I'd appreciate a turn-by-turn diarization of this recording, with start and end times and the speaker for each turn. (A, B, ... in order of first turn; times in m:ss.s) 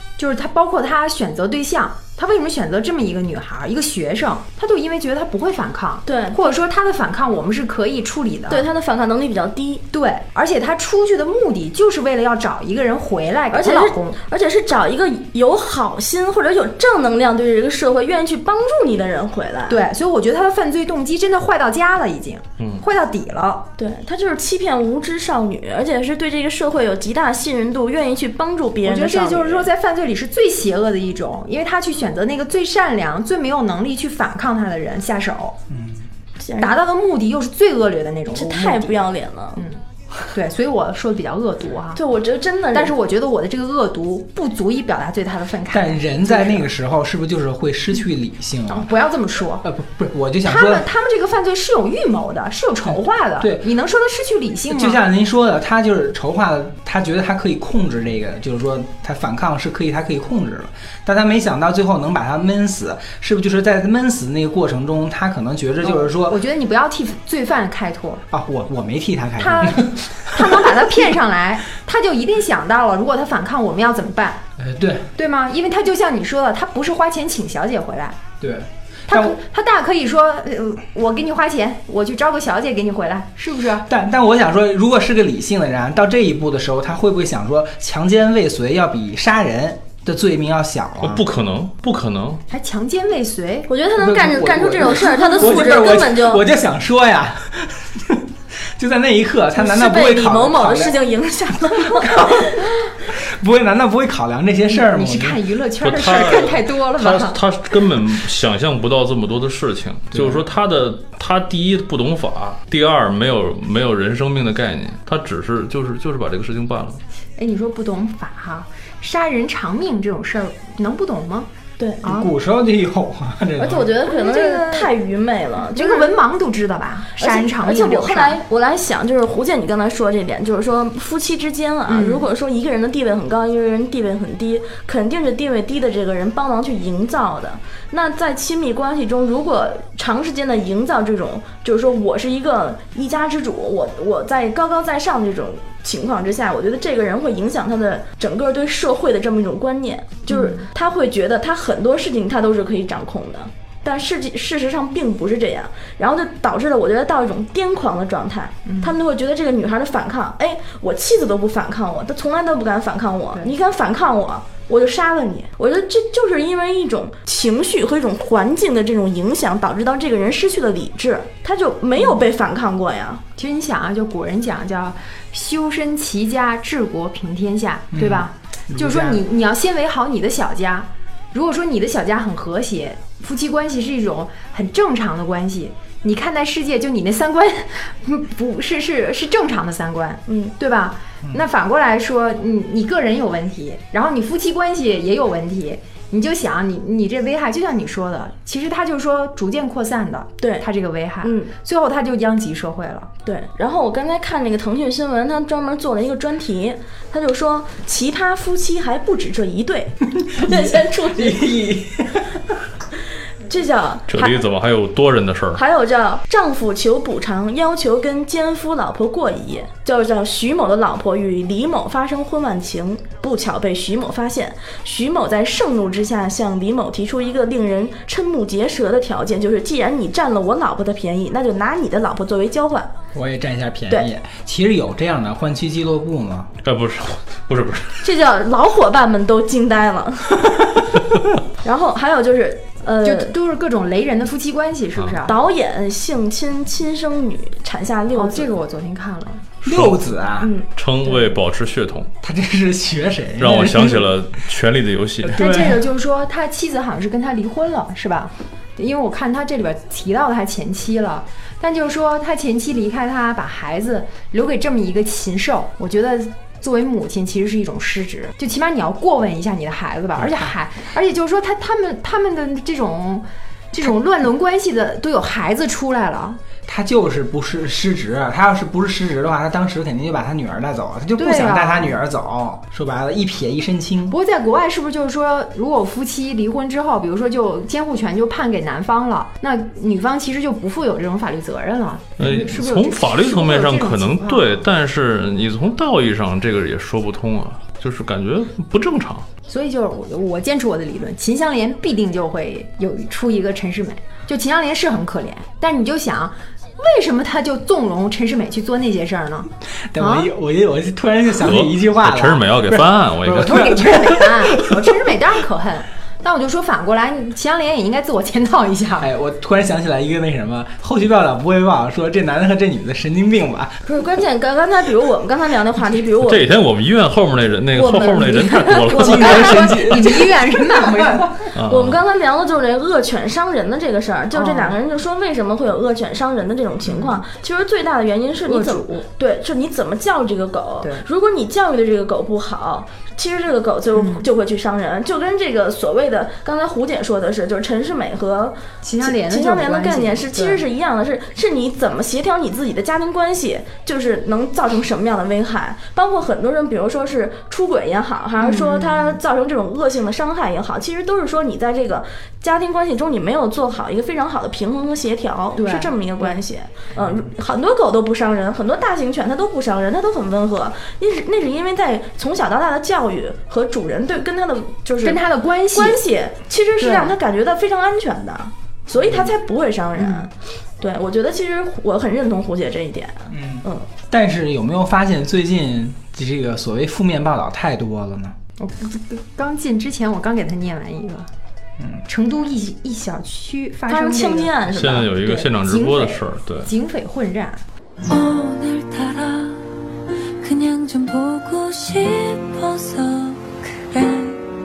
0:00.2-0:08.6 A
0:06.0-0:06.4 B
0:08.5-0:09.8 B
0:09.9-0:14.2 A
0:13.5-0:19.8 B
0:19.7-0:23.7 A
0:23.8-0:29.7 B
0:28.8-0:35.6 A
0:35.7-0:36.0 C
0:36.4-0:36.7 B
0:36.6-0:42.0 A
0:38.3-0:39.6 B
0:41.9-0:42.9 B
0:42.7-0:46.7 A
0:45.7-0:48.9 C
0:48.7-0:49.7 A
0:49.6-0:50.8 C
0:50.4-0:55.0 A
0:53.4-0:53.6 C
0:54.7-1:06.4 C
1:05.8-1:08.2 A
1:08.3-1:10.7 C
1:09.4-1:14.4 A
1:14.6-1:15.1 C
1:15.1-1:18.2 A
1:18.4-1:19.4 C
1:19.1-1:23.9 A
1:23.9-1:31.2 C
1:31.0-1:32.4 D
1:32.5-1:33.7 A
1:33.7-1:36.4 B
1:33.9-1:38.2 C
1:35.0-1:35.9 A
1:38.8-1:41.0 C
1:39.6-1:42.7 B
1:41.8-1:45.4 C
1:44.7-1:47.4 A
1:45.8-1:57.0 D
1:50.1-1:50.4 C
1:57.4-2:01.5 A
2:01.8-2:02.0 B
2:02.0-2:02.3 A
2:02.0-2:03.9 C
2:03.6-2:06.2 B
2:04.0-2:04.9 A
2:05.7-2:08.4 A
2:07.2-2:53.2 B
2:11.9-2:12.2 A
2:30.3-2:30.6 A
2:38.6-2:39.0 A
2:52.0-2:52.2 A
2:53.4-3:23.1 A
2:57.9-2:59.2 C
3:10.3-3:10.5 B
3:20.4-3:20.6 B
3:21.2-3:21.5 B
3:23.2-3:31.5 B
3:30.2-3:32.5 C
3:33.5-3:34.4 B
3:34.1-3:35.6 D
3:35.5-3:52.9 B
3:53.1-3:56.5 C
3:56.6-3:58.0 D
3:58.0-4:00.5 B
4:01.6-4:03.3 B
4:03.0-4:05.4 A
4:05.2-4:08.5 B
4:08.1-4:09.4 A
4:09.6-4:10.5 C
4:09.6-4:10.0 D
4:10.4-4:10.6 B
4:10.7-4:12.1 D
4:12.2-4:14.1 C
4:13.4-4:15.4 D
4:15.2-4:15.8 C
4:15.3-4:36.4 A
4:36.6-4:44.2 C
4:41.2-4:42.0 A
4:44.1-4:54.6 A
4:52.2-4:59.3 D
4:59.5-5:10.3 A
5:09.9-5:15.0 C
5:11.4-5:13.8 D
5:13.3-5:19.1 A
5:19.0-5:23.8 C
5:23.8-5:26.4 B
5:26.2-5:30.0 D
5:27.7-5:28.7 B
5:27.8-5:31.5 A
5:28.9-5:31.2 C
5:31.5-5:32.0 D
5:31.6-6:15.2 B
5:34.3-5:34.8 A
5:36.9-5:37.2 A
5:38.4-5:39.0 A
5:43.9-5:44.2 A
5:48.8-5:50.6 A
5:58.4-5:59.2 A
6:05.6-6:06.4 A
6:15.0-6:16.0 A
6:15.7-6:23.9 B
6:16.8-6:17.2 A
6:20.0-6:20.3 A
6:23.3-6:28.3 C
6:28.6-6:31.3 A
6:32.0-6:37.6 A
6:33.9-6:35.1 B
6:34.7-6:36.7 D
6:38.0-6:39.6 E
6:40.4-6:44.4 E